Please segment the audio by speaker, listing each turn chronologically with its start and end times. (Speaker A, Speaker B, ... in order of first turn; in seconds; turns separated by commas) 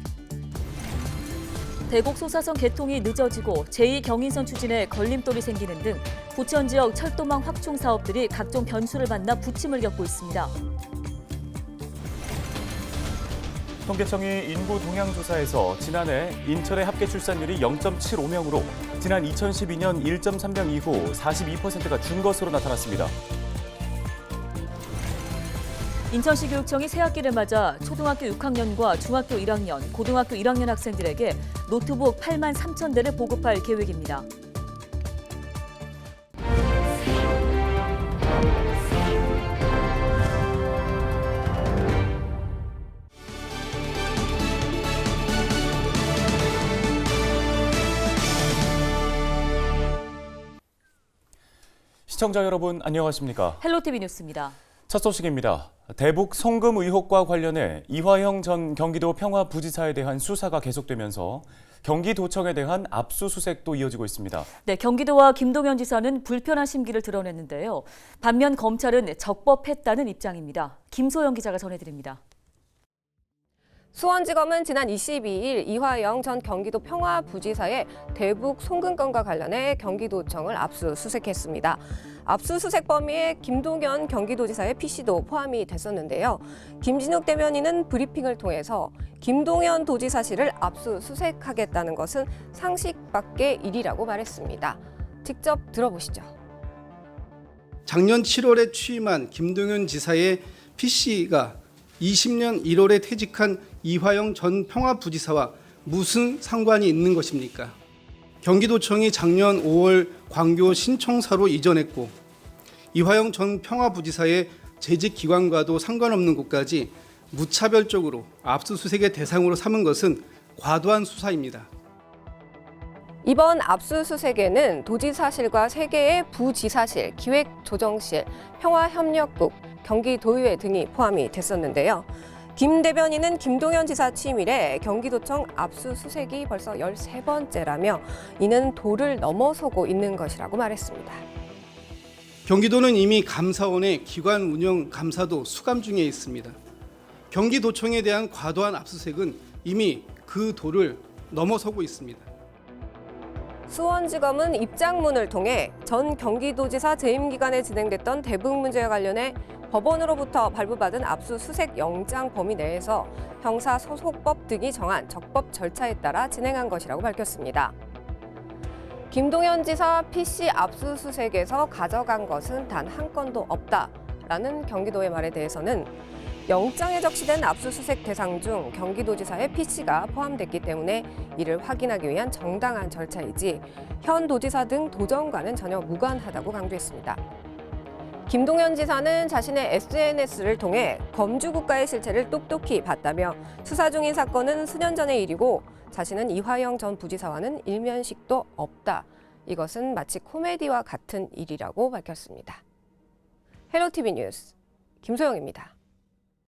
Speaker A: 1.9-10.6, Speaker B: 13.8-23.1, Speaker A: 26.1-34.3, Speaker B: 52.1-53.6, Speaker A: 53.6-54.5, Speaker B: 54.9-64.5, Speaker A: 64.6-72.2, Speaker C: 73.9-96.3, Speaker D: 97.8-107.7, Speaker D: 108.4-112.1, Speaker D: 112.9-121.7, Speaker C: 123.2-141.2, Speaker D: 142.4-146.6, Speaker D: 147.3-152.2, Speaker C: 153.7-167.7, Speaker C: 169.1-175.9, Speaker C: 176.5-187.2, Speaker C: 188.3-202.6, Speaker C: 203.7-205.7